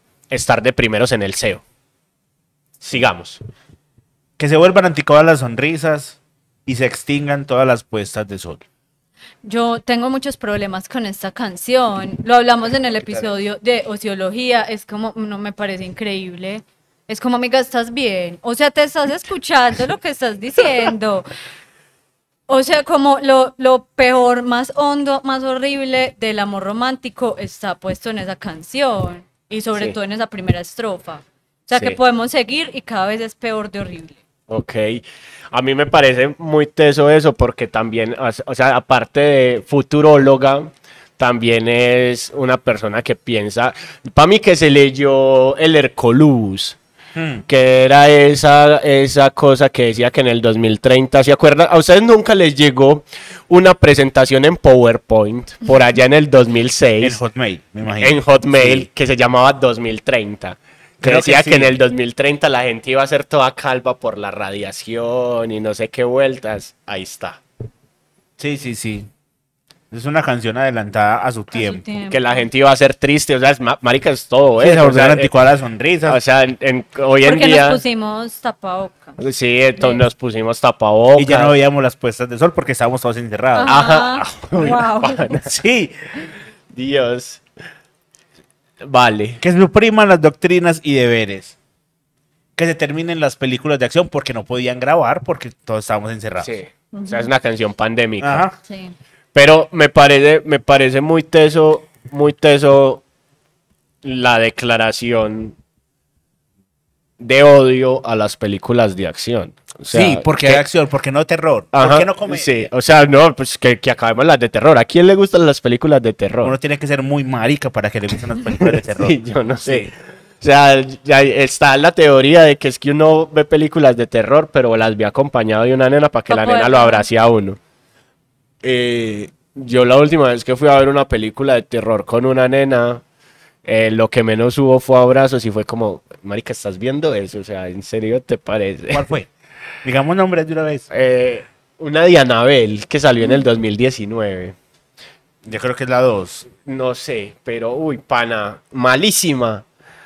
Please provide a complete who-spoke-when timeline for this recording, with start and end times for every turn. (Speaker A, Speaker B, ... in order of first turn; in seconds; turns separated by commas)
Speaker A: 0.3-1.6, Speaker A: 2.8-3.4, Speaker B: 4.4-8.6, Speaker C: 9.4-21.3, Speaker C: 22.5-34.2, Speaker A: 31.7-32.0, Speaker A: 34.5-46.8, Speaker B: 47.1-47.4, Speaker A: 47.5-57.2, Speaker B: 57.0-58.9, Speaker A: 58.0-67.4, Speaker B: 61.0-61.7, Speaker B: 68.4-69.1, Speaker B: 69.9-71.8, Speaker C: 71.5-72.4, Speaker A: 72.1-75.3, Speaker B: 74.6-76.2, Speaker A: 76.0-77.8, Speaker C: 77.2-79.2, Speaker A: 79.2-81.5, Speaker B: 81.2-83.7, Speaker C: 83.5-85.3, Speaker A: 83.6-85.6, Speaker B: 85.4-86.0, Speaker A: 86.7-87.4, Speaker A: 88.8-89.4, Speaker B: 89.4-91.5, Speaker B: 92.6-96.5, Speaker A: 96.4-98.5, Speaker C: 96.9-97.3, Speaker B: 98.2-98.5, Speaker C: 98.6-98.9, Speaker A: 99.3-103.0, Speaker A: 104.0-105.5, Speaker A: 107.2-110.6, Speaker B: 109.9-112.6, Speaker A: 111.7-116.5, Speaker B: 116.4-119.9, Speaker A: 118.6-127.6, Speaker C: 126.3-127.1, Speaker A: 128.6-133.0, Speaker A: 133.6-139.1, Speaker B: 138.9-139.3, Speaker B: 139.8-140.9, Speaker A: 140.9-144.5, Speaker B: 145.4-146.5, Speaker A: 146.6-149.6